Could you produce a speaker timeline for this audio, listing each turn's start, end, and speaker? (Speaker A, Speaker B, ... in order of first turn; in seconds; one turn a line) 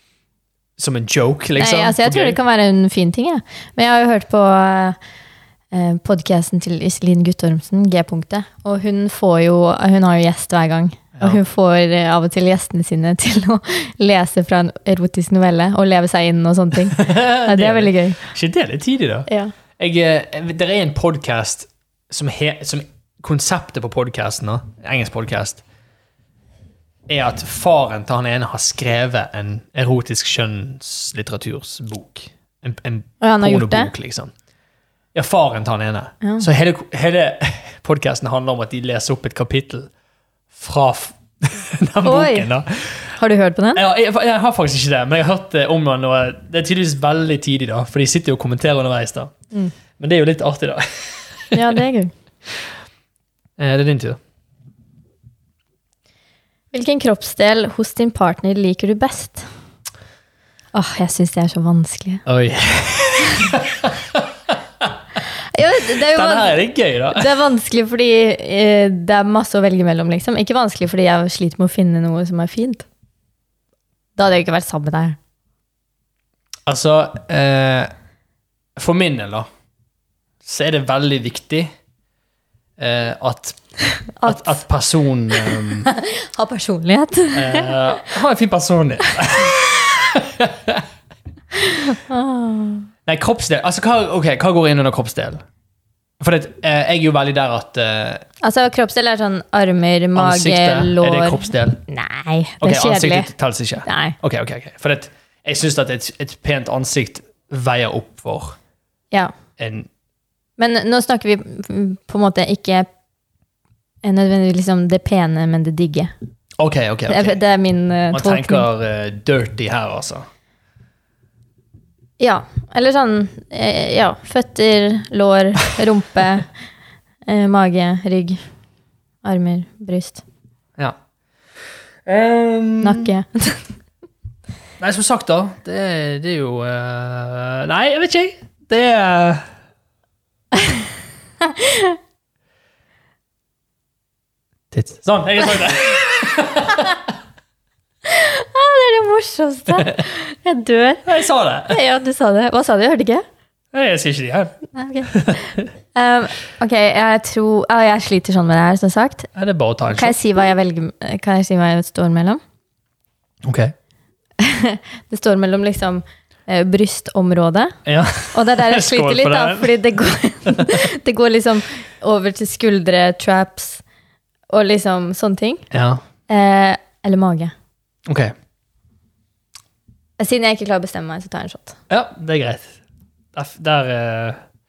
Speaker A: 0.8-2.4
Speaker B: 1.6-5.0
Speaker B: 5.7-18.2
Speaker A: 16.9-25.6
Speaker B: 19.3-19.5
Speaker A: 27.1-34.3
Speaker B: 33.2-33.9
Speaker A: 35.1-39.9
Speaker A: 40.5-43.1
Speaker B: 42.0-42.5
Speaker B: 43.1-43.8
Speaker A: 43.8-49.3
Speaker A: 50.0-51.8
Speaker B: 51.5-52.1
Speaker A: 53.6-54.2
Speaker B: 56.7-59.5
Speaker B: 60.7-62.2
Speaker A: 62.2-64.9
Speaker B: 65.3-72.8
Speaker A: 65.9-67.3
Speaker B: 74.2-75.2
Speaker A: 76.7-77.9
Speaker A: 78.8-79.5
Speaker A: 80.4-81.7
Speaker A: 82.8-83.6
Speaker B: 84.0-84.6
Speaker A: 84.2-85.9
Speaker B: 85.8-87.8
Speaker A: 87.3-90.8
Speaker B: 91.7-92.9
Speaker A: 93.0-95.4
Speaker A: 96.2-98.2
Speaker B: 98.4-103.3
Speaker A: 100.1-101.8
Speaker A: 102.6-108.6
Speaker B: 103.8-104.2
Speaker A: 109.6-109.9
Speaker B: 110.6-112.9
Speaker B: 114.0-116.1
Speaker A: 116.6-117.4
Speaker B: 117.1-118.7
Speaker A: 118.1-120.2
Speaker B: 122.2-126.5
Speaker B: 127.3-128.4
Speaker B: 129.2-130.2
Speaker A: 132.1-133.1
Speaker B: 132.8-133.6
Speaker A: 134.8-139.4
Speaker B: 140.5-140.8
Speaker B: 141.4-142.0
Speaker A: 144.7-147.1
Speaker B: 148.1-151.1
Speaker A: 149.7-150.0
Speaker A: 151.0-151.8
Speaker B: 151.7-153.2
Speaker A: 153.7-155.7
Speaker B: 154.7-159.3
Speaker A: 159.3-160.2
Speaker B: 159.9-162.4
Speaker A: 163.4-163.7
Speaker B: 164.4-167.8
Speaker A: 167.8-169.8
Speaker B: 168.3-173.8
Speaker B: 174.5-175.6
Speaker A: 175.7-176.0
Speaker B: 176.3-177.5
Speaker A: 178.1-178.3
Speaker B: 180.2-181.8
Speaker A: 181.9-182.7
Speaker A: 183.3-184.4